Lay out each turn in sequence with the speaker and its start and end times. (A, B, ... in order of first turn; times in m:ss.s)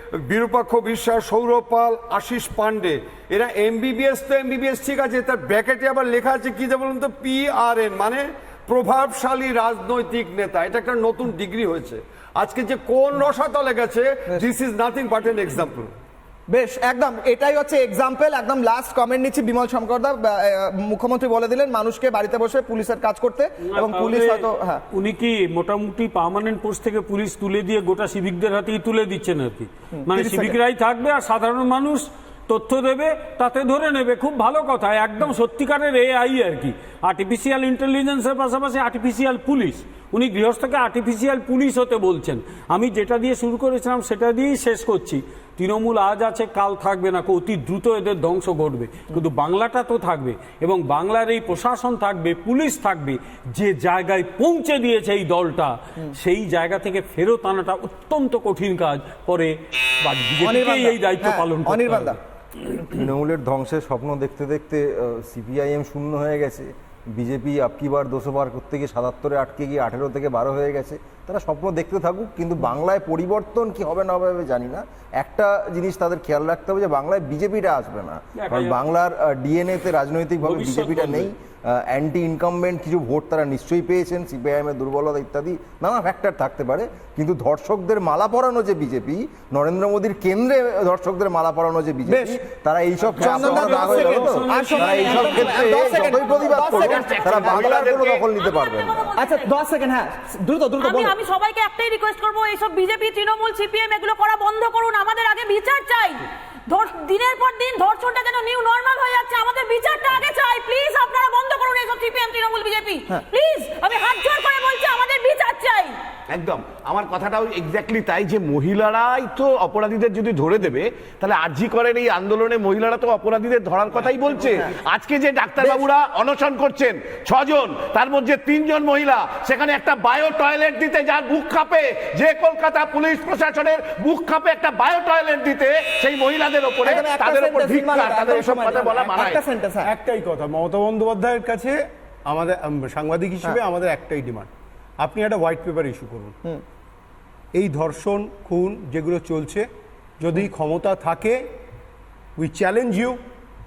0:00.3-0:15.9 A
0:16.5-0:24.8 B
0:23.6-1:02.2 C
0:30.1-0:30.6 B
1:00.4-1:02.2 B
1:02.8-1:39.0 D
1:18.4-1:18.8 C
1:20.4-1:21.3 C
1:32.1-1:32.4 B
1:33.1-1:35.8 C
1:33.2-1:38.0 B
1:36.2-1:38.2 E
1:38.4-1:39.5 F
1:39.2-1:41.2 B
1:40.8-1:55.9 F
1:56.3-2:19.4 E
2:16.8-2:19.9 B
2:19.8-2:26.4 G
2:27.5-2:29.7 G
2:30.2-2:31.4 G
2:32.4-2:33.2 G